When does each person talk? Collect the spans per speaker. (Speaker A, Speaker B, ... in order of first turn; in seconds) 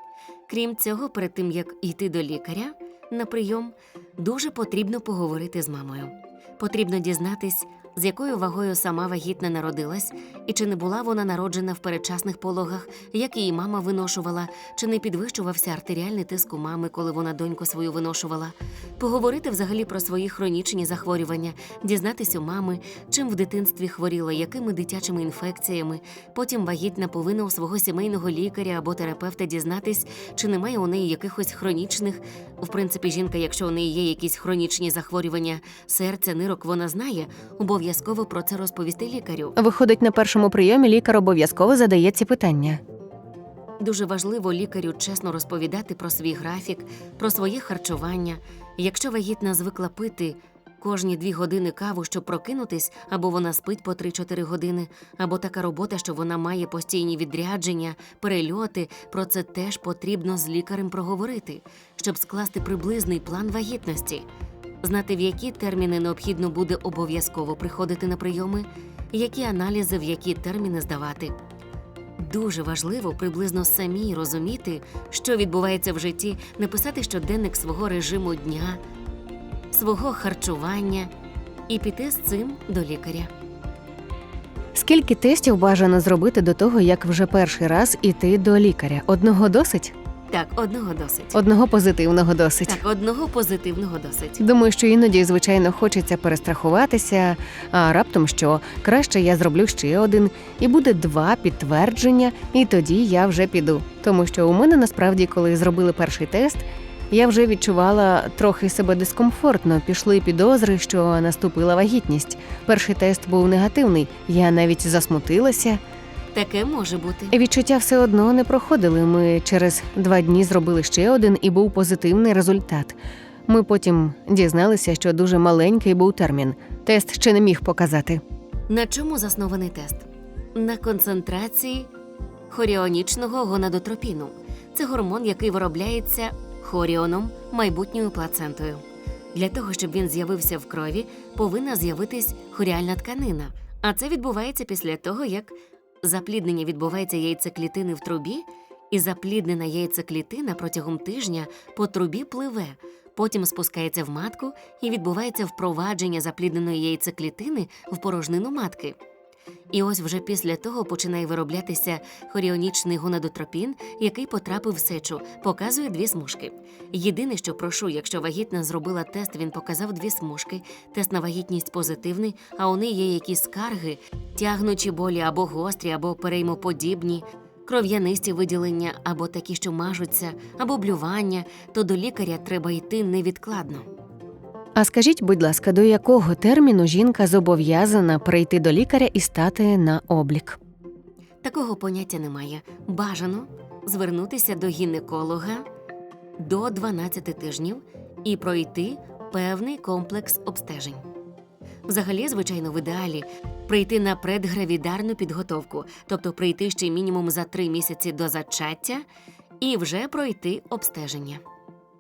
Speaker A: 0.5-39.5, 43.8-64.2, 64.8-71.4, 72.2-78.8, 79.7-81.1, 81.7-83.3, 90.3-91.4, 92.7-94.4, 116.3-117.3, 128.7-131.9, 132.5-138.8, 139.3-159.0, 159.7-183.9, 191.4-195.7, 196.4-201.0, 201.9-209.0, 209.6-211.4
Speaker B: 39.6-42.8, 84.7-89.9, 91.3-92.8, 94.4-115.8, 117.3-128.2, 184.8-190.6